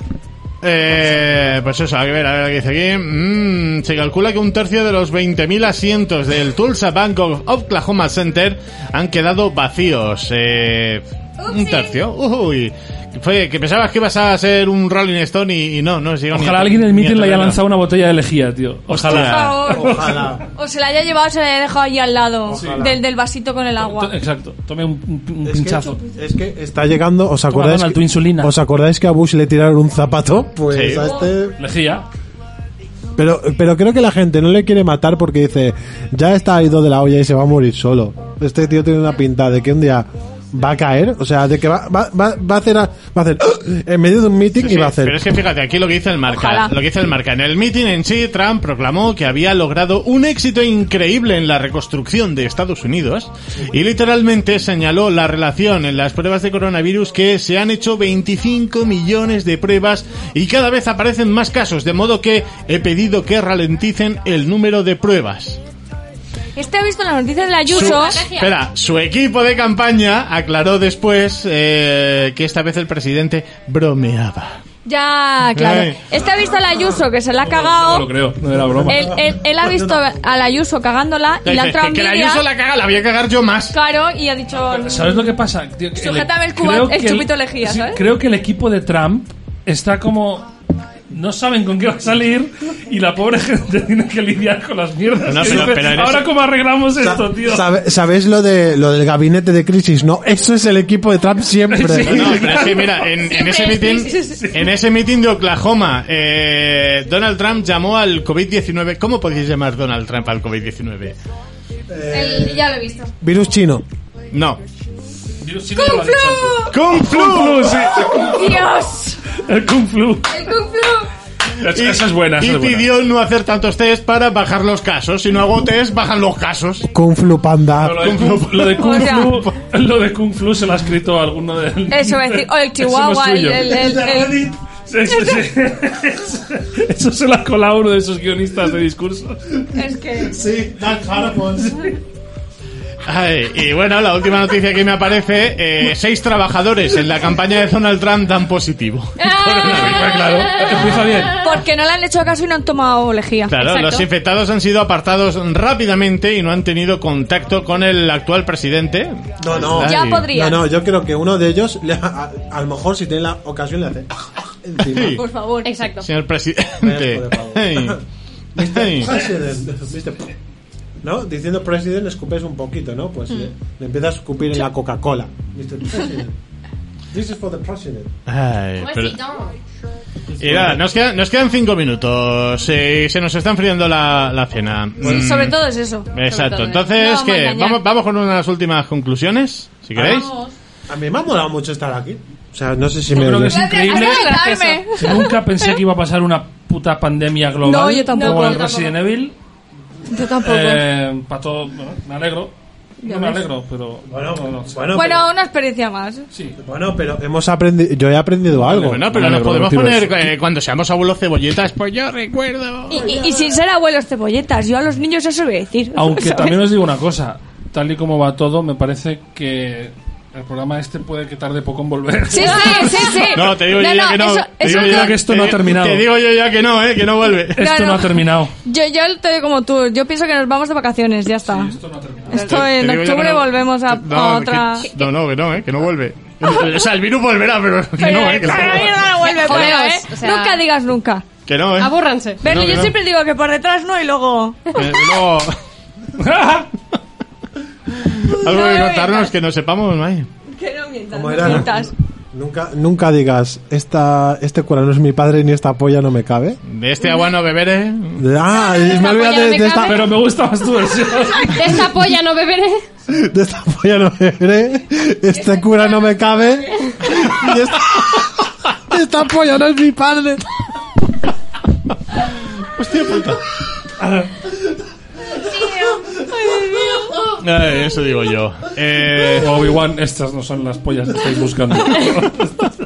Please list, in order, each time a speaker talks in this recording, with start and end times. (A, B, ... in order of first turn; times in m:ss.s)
0:00.6-0:17.6 A
0:11.4-0:12.0 B
0:16.3-0:20.4 C
0:18.9-0:19.7 A
0:19.1-0:24.1 D
0:19.7-0:20.4 E
0:22.5-0:23.0 E
0:22.6-0:22.9 C
0:23.8-0:26.0 C
0:25.4-0:31.6 E
0:27.5-0:28.5 C
0:30.7-0:31.1 A
0:31.0-0:31.3 D
0:31.6-0:32.1 C
0:33.2-0:45.3 E
0:44.6-1:05.6 A
0:46.3-0:46.7 D
1:06.6-1:08.2 D
1:07.6-1:08.6 B
1:07.7-1:14.6 A
1:14.9-1:18.1 D
1:15.6-1:16.0 A
1:17.4-1:19.2 C
1:18.6-1:20.5 E
1:18.9-1:22.5 D
1:21.4-1:23.8 A
1:23.7-1:25.2 D
1:24.5-1:30.5 C
1:26.0-1:28.0 D
1:31.1-1:37.7 C
1:35.2-1:36.3 A
1:37.0-1:42.6 E
1:41.7-1:43.1 C
1:42.0-1:51.2 A
1:43.2-1:44.4 D
1:44.2-1:44.7 C
1:51.9-1:53.8 E
1:52.1-1:53.1 B
1:54.3-1:54.6 A
1:55.4-1:58.6 C
1:55.8-1:56.7 D
1:56.7-1:58.1 A
1:58.1-1:59.2 D
1:59.3-2:00.5 C
2:00.4-2:00.7 D
2:00.4-2:01.1 B
2:01.6-2:02.9 C
2:01.6-2:06.9 A
2:06.9-2:08.2 E
2:07.8-2:14.0 C
2:07.9-2:09.2 A
2:08.8-2:09.5 D
2:11.9-2:14.5 D
2:13.7-2:14.6 E
2:14.9-2:19.7 C
2:15.1-2:15.5 D
2:19.7-2:20.4 D
2:20.2-2:21.8 E
2:23.1-2:30.4 A
2:29.2-2:31.6 B
2:29.8-2:31.4 C
2:31.3-2:33.6 D
2:33.5-2:40.3 A
2:33.6-2:34.1 B
2:39.4-2:44.1 E
2:39.8-2:40.7 D
2:44.6-2:45.2 E
2:44.8-2:45.2 A
2:45.2-2:45.9 D
2:45.6-2:46.1 B
2:46.0-2:48.0 A
2:46.8-2:48.0 E
2:48.6-2:50.3 E
2:48.6-2:49.2 A
2:51.0-2:56.4 E
2:57.1-2:58.1 E
2:58.3-2:59.2 A
2:58.8-2:59.6 B
3:00.4-3:05.6 A
3:00.4-3:00.8 E
3:05.0-3:05.3 E
3:05.0-3:06.1 D
3:06.1-3:10.3 A
3:06.2-3:06.9 B
3:06.8-3:07.8 D
3:10.0-3:10.3 E
3:10.0-3:10.5 D
3:10.9-3:13.7 E
3:13.1-3:19.4 C
3:13.5-3:15.8 D
3:13.6-3:14.9 B
3:17.6-3:18.8 D
3:18.1-3:19.0 B
3:20.1-3:20.8 D
3:20.3-3:25.0 C
3:23.0-3:23.5 D
3:24.0-3:25.3 E
3:24.9-3:26.3 D
3:26.3-3:26.6 C
3:26.6-3:29.1 E
3:28.7-3:33.1 A
3:28.7-3:30.3 C
3:32.9-3:36.7 D
3:32.9-3:33.5 E
3:36.0-3:43.3 C
3:42.3-3:45.1 D
3:42.6-3:43.4 B
3:43.3-3:47.6 A
3:44.6-3:46.1 C
3:47.6-3:48.5 C
3:47.6-3:51.8 D
3:51.4-3:52.6 C
3:52.3-3:54.9 D
3:52.3-3:59.7 A
3:58.0-4:01.2 D
3:59.2-4:00.6 B
4:01.5-4:02.9 A
4:01.8-4:02.4 B
4:02.4-4:04.8 D
4:04.7-4:05.6 A
4:06.2-4:06.7 C
4:07.9-4:10.3 A
4:08.4-4:09.3 D
4:10.5-4:11.9 D
4:11.1-4:16.6 E
4:16.6-4:18.2 A
4:18.2-4:20.1 E
4:18.5-4:20.2 B
4:19.9-4:21.9 C
4:21.5-4:22.8 B
4:23.1-4:30.4 E
4:32.6-4:33.4 A
4:35.4-4:37.3 D
4:37.4-4:39.6 A
4:39.4-4:42.7 C